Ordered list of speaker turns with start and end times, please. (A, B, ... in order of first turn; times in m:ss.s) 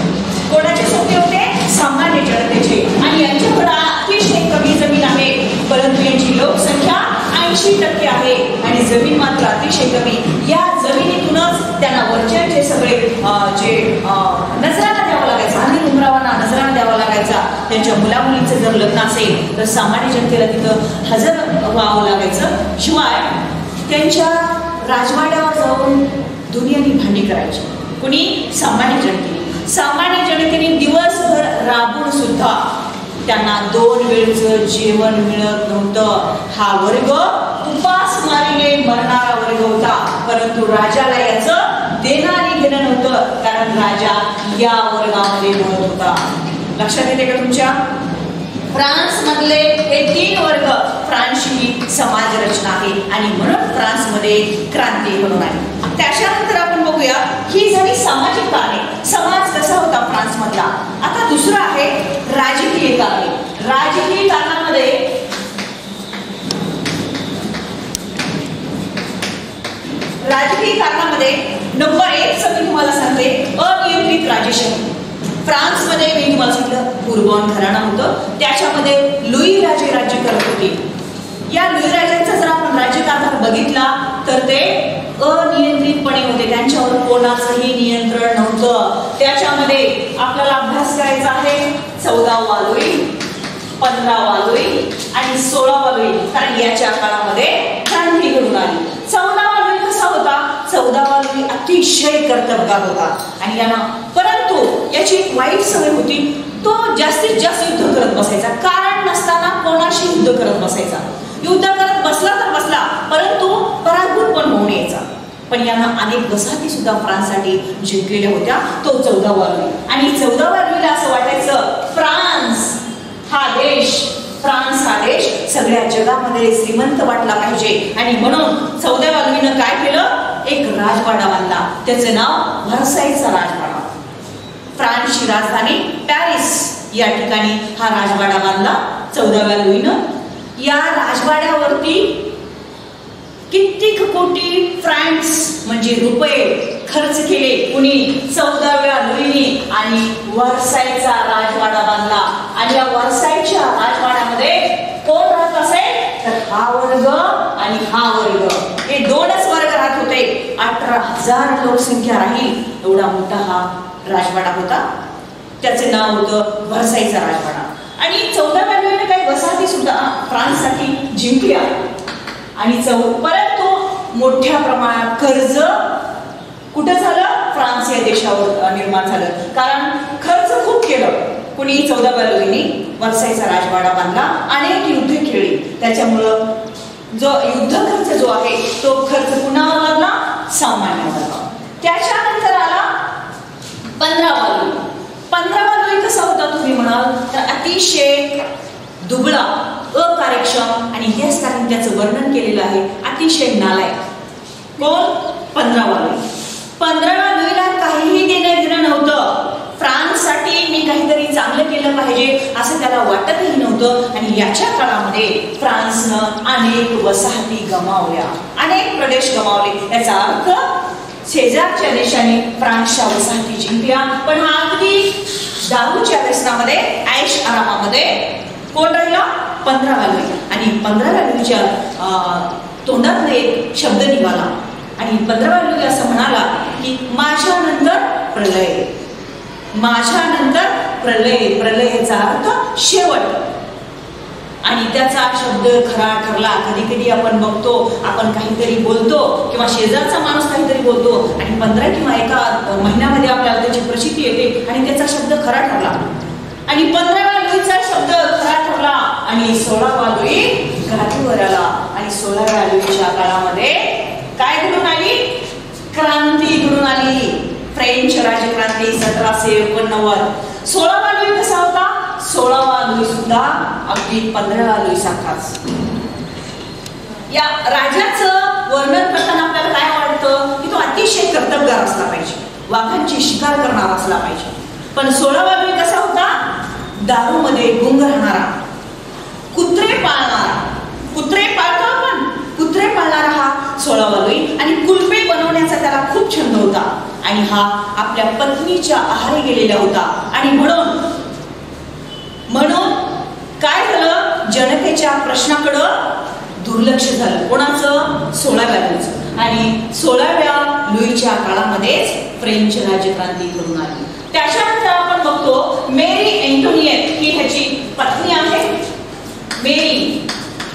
0:00.5-0:32.7 A
0:33.2-0:46.2 A
0:46.8-0:47.8 A
0:48.7-1:05.2 A
1:10.2-1:20.8 A
1:21.5-1:33.1 A
1:33.8-2:13.9 A
2:14.8-2:20.0 A
2:20.6-2:22.2 A
2:23.5-2:44.9 A
2:45.6-2:51.7 A
2:52.6-2:56.0 A
2:56.7-3:06.5 A
3:07.1-3:13.0 A
3:14.0-3:18.4 A
3:19.0-3:24.0 A
3:24.8-3:26.2 A
3:26.8-3:58.9 A
3:59.7-4:03.4 A
4:04.6-4:16.0 A
4:16.7-4:35.6 A
4:37.3-4:48.6 A
4:49.5-5:01.1 A
5:02.5-5:18.8 A
5:19.6-5:20.2 A